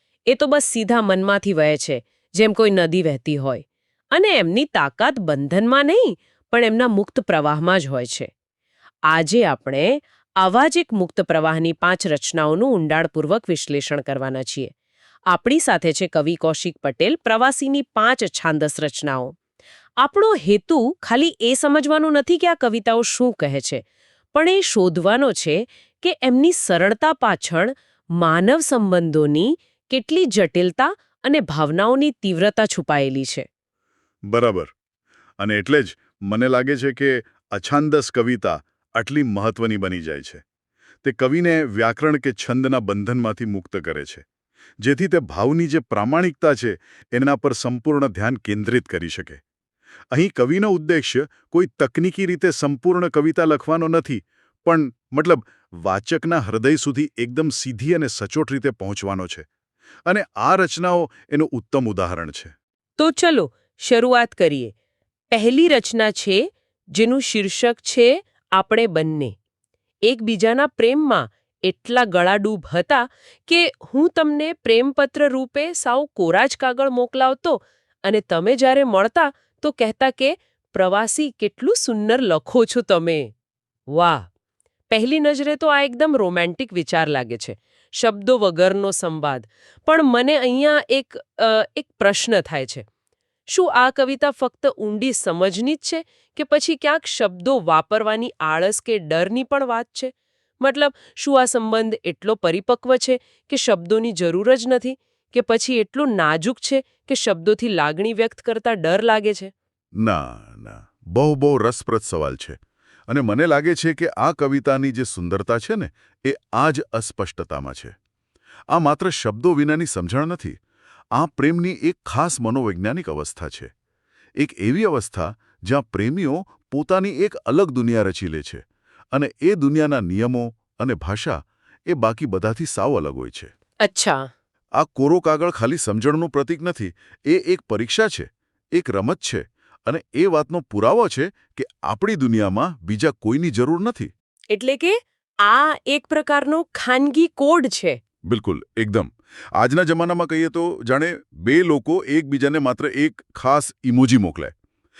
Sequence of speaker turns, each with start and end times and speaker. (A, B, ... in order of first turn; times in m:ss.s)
0:00.3-0:08.3 A
0:09.1-0:14.7 A
0:15.3-0:19.3 A
0:20.0-0:23.8 A
0:24.3-0:33.5 A
0:34.3-0:34.7 B
0:35.4-0:40.4 B
0:41.0-0:44.2 B
0:44.8-0:49.4 B
0:50.1-0:59.4 B
1:00.1-1:02.5 B
1:03.0-1:04.7 A
1:05.3-1:09.3 A
1:10.1-1:23.3 A
1:23.9-1:24.3 A
1:24.9-1:32.8 A
1:33.5-1:49.5 A
1:50.0-1:52.6 B
1:53.1-1:57.9 B
1:58.7-2:00.6 B
2:01.2-2:03.7 B
2:04.4-2:08.6 B
2:09.1-2:13.5 B
2:13.8-2:14.3 A
2:14.8-2:24.1 B
2:24.5-2:28.0 A
2:28.3-2:34.5 B